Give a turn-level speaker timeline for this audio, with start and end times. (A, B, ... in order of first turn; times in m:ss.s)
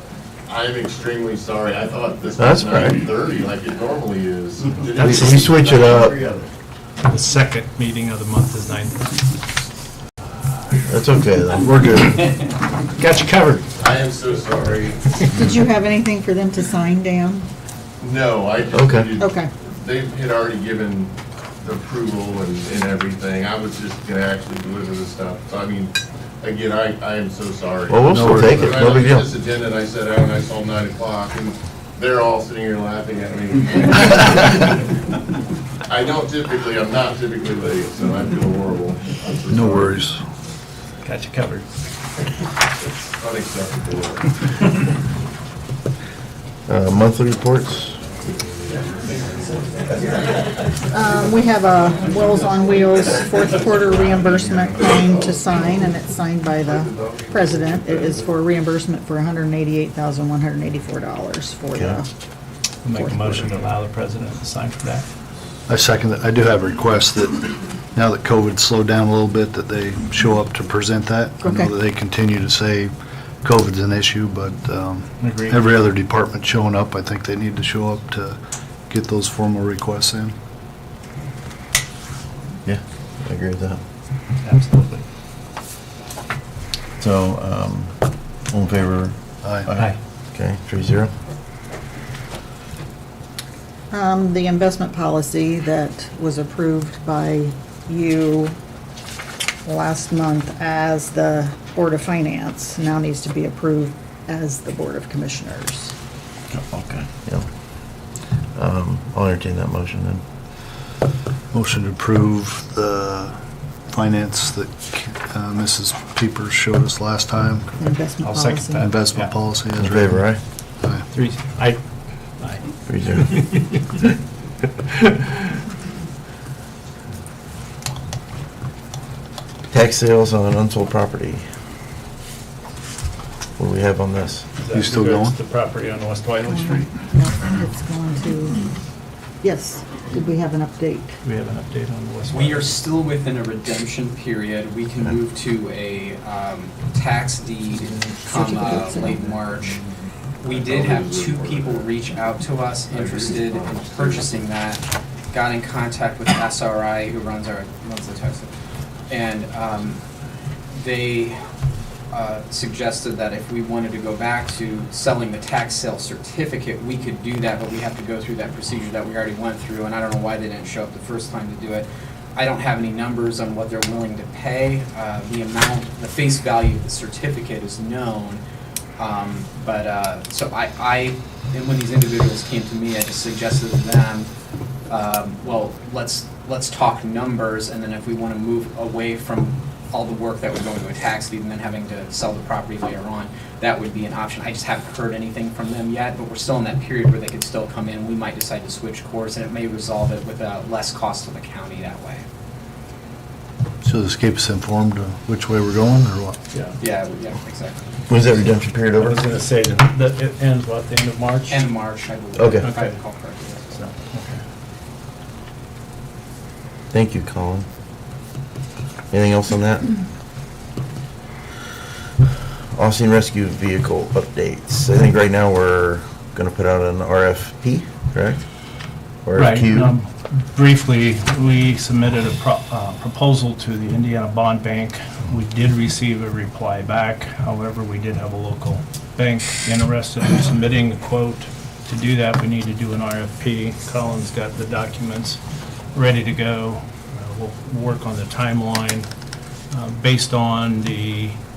0:00.5-0:06.5 A
0:02.4-0:03.0 B
0:04.8-0:05.5 C
0:05.0-0:06.1 B
0:07.0-0:09.2 C
0:10.9-0:12.2 B
0:11.8-0:13.7 C
0:13.8-0:15.0 A
0:15.0-0:15.3 C
0:15.3-0:17.5 D
0:18.0-0:34.8 A
0:18.7-0:19.1 B
0:19.2-0:19.5 D
0:27.9-0:29.2 B
0:28.1-0:28.8 E
0:35.9-0:39.9 A
0:39.5-0:40.2 E
0:41.0-0:41.6 C
0:43.2-0:44.3 A
0:46.7-0:48.0 B
0:48.7-0:50.0 A
0:50.8-1:02.1 D
0:54.4-0:55.8 A
0:56.7-0:58.3 A
1:02.8-1:05.1 C
1:02.9-1:03.4 D
1:05.7-1:12.9 E
1:11.4-1:11.7 D
1:13.4-1:18.4 E
1:15.2-1:15.6 C
1:18.9-1:20.3 E
1:22.6-1:23.8 B
1:24.4-1:25.0 C
1:27.0-1:31.1 B
1:29.4-1:29.7 E
1:33.9-1:38.6 D
1:39.6-1:45.9 D
1:46.5-1:47.5 B
1:48.5-1:50.2 B
1:51.5-1:53.4 E
1:53.9-1:57.7 E
1:57.8-1:58.9 D
1:57.8-1:59.3 C
1:58.8-2:00.3 E
1:59.8-2:00.4 B
2:00.8-2:01.0 E
2:01.1-2:01.8 C
2:02.4-2:03.8 C
2:02.9-2:03.3 B
2:09.7-2:11.4 B
2:13.6-2:14.4 B
2:14.6-2:16.9 C
2:14.7-2:15.3 E
2:16.4-2:18.7 D
2:19.4-2:21.2 D
2:21.2-2:22.7 C
2:22.3-2:29.8 F
2:28.3-2:29.2 D
2:30.4-2:32.0 A
2:30.4-2:38.5 F
2:32.9-2:34.5 A
2:39.1-2:40.0 F
2:40.7-2:41.4 F
2:42.1-2:58.4 F
2:59.0-3:04.3 F
3:04.9-3:22.2 F
3:23.8-3:26.4 E
3:26.5-3:26.8 C
3:26.8-3:27.8 F
3:28.1-3:29.2 B
3:28.9-3:31.6 C
3:31.5-3:33.8 F
3:32.4-3:32.7 B
3:32.6-3:33.0 C
3:33.7-3:34.4 C
3:36.9-3:37.6 B
3:39.1-3:39.9 B
3:42.7-3:48.4 B
3:49.2-3:49.9 B
3:49.3-4:05.4 C
4:05.9-4:09.1 C
4:09.7-4:11.4 C